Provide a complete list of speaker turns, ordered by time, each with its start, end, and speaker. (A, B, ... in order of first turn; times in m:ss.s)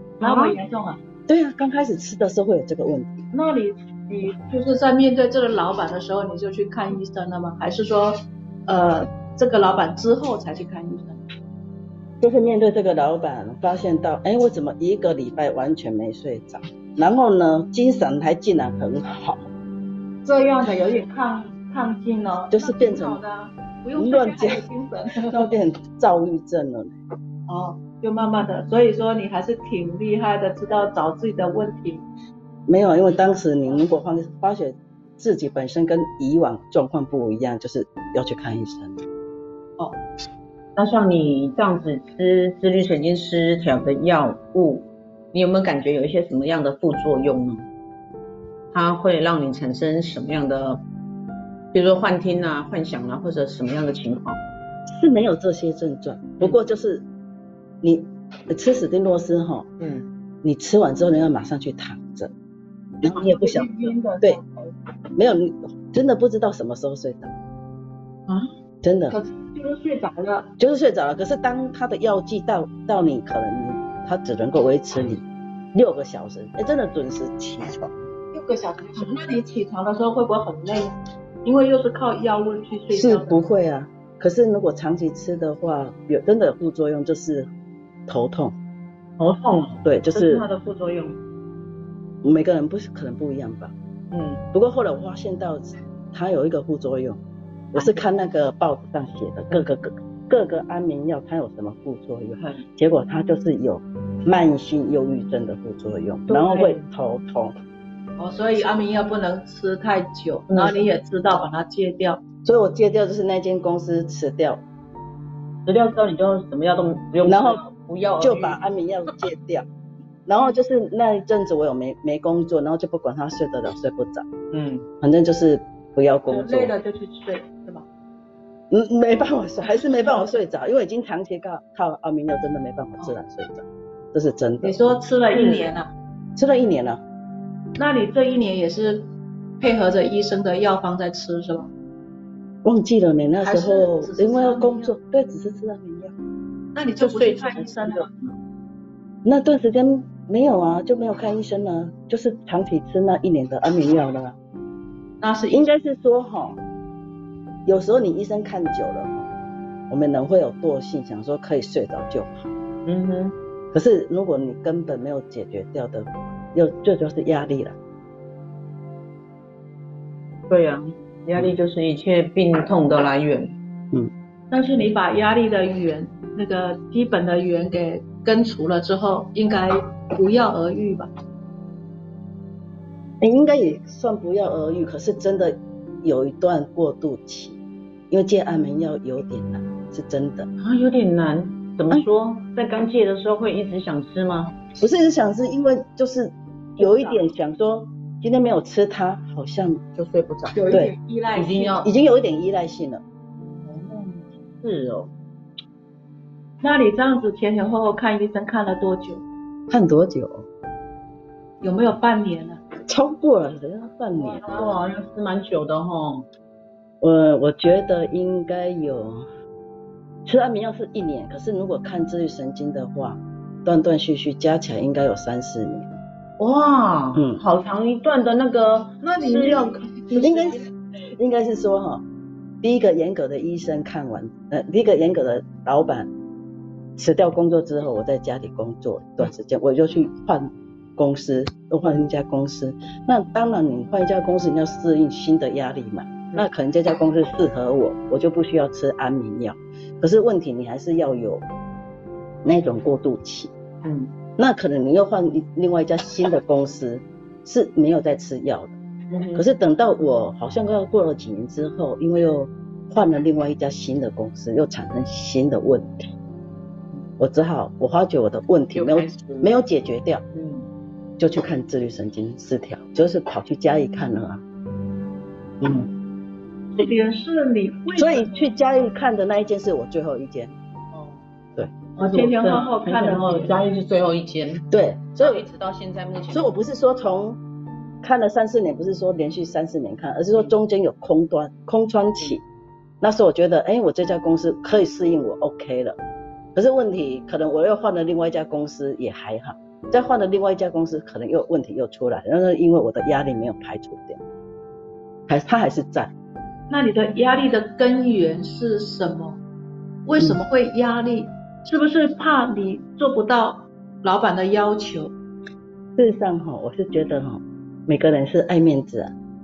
0:00.2-0:00.6 A
0:00.2-0:01.0 B
0:01.3-0:03.2 C
0:03.3-0:11.2 B
0:12.2-0:19.5 C
0:20.2-0:25.5 B
0:22.5-0:23.2 C
0:24.0-0:24.6 C
0:25.2-0:27.0 C
0:27.5-0:32.0 B
0:32.7-0:39.0 C
0:40.8-0:47.7 A
0:48.7-0:50.8 A
0:51.7-0:54.4 A
0:54.9-0:57.1 C
0:57.8-0:59.7 C
0:59.8-1:00.1 A
1:00.4-1:02.3 C
1:03.0-1:04.4 C
1:03.0-1:04.7 B
1:05.2-1:07.3 C
1:08.8-1:09.2 C
1:09.1-1:10.5 B
1:10.6-1:18.0 C
1:18.3-1:23.4 B
1:22.9-1:27.5 C
1:28.1-1:28.6 C
1:29.2-1:31.2 A
1:29.8-1:30.4 C
1:32.2-1:33.7 C
1:34.1-1:34.4 A
1:34.5-1:37.2 C
1:37.7-1:47.6 C
1:37.8-1:38.0 A
1:42.4-1:42.6 A
1:46.3-1:46.9 A
1:48.2-1:52.2 B
1:50.5-1:50.8 A
1:52.4-1:54.6 C
1:55.7-1:58.6 A
1:57.3-1:57.6 C
1:58.2-1:59.7 C
2:00.3-2:04.3 C
2:04.5-2:04.9 A
2:05.0-2:06.7 C
2:06.3-2:07.9 B
2:08.7-2:15.0 C
2:09.8-2:10.2 B
2:14.6-2:15.9 B
2:15.3-2:15.7 A
2:16.4-2:17.0 C
2:17.8-2:21.7 B
2:22.6-2:26.1 C
2:23.4-2:24.9 B
2:26.8-2:28.1 B
2:27.0-2:28.4 A
2:29.2-2:34.4 C
2:35.2-2:35.7 B
2:35.5-2:36.6 C
2:37.7-2:39.3 C
2:39.9-2:42.5 C
2:42.9-2:43.4 A
2:43.7-2:47.8 C
2:50.5-2:53.6 A
2:54.5-3:01.1 B
3:03.2-3:07.6 C
3:08.1-3:10.5 C
3:10.6-3:14.5 A
3:14.8-3:19.8 C
3:16.8-3:17.2 B
3:20.0-3:20.6 A
3:20.5-3:21.9 B
3:21.4-3:21.9 A
3:21.8-3:23.0 C
3:23.6-3:25.1 A
3:26.6-3:29.2 B
3:29.7-3:30.5 C
3:31.6-3:32.6 B
3:32.9-3:34.8 C
3:34.2-3:36.3 A
3:37.0-3:39.3 C
3:40.2-3:46.0 C
3:46.4-3:50.4 A
3:47.2-3:47.4 C
3:49.1-3:50.5 B
3:50.2-3:50.6 C
3:51.2-3:52.0 C
3:52.6-3:56.1 C
3:57.0-4:11.4 C
4:12.4-4:13.5 C
4:13.8-4:14.1 A
4:14.4-4:18.8 C
4:19.1-4:19.5 A
4:19.4-4:26.0 C
4:27.2-4:30.2 C
4:28.7-4:29.5 A
4:30.3-4:30.7 A
4:31.2-4:34.4 C
4:35.6-4:35.9 C
4:36.8-4:38.5 B
4:38.0-4:40.6 C
4:40.9-4:41.2 A
4:42.0-4:43.6 B
4:42.0-4:44.7 A
4:44.7-4:45.4 C
4:45.2-4:46.5 A
4:46.3-4:47.4 C
4:48.0-4:52.4 C
4:53.0-4:56.0 C
4:56.6-5:04.2 C
5:05.3-5:06.1 C
5:06.7-5:09.4 B
5:10.1-5:15.1 B
5:16.0-5:19.1 C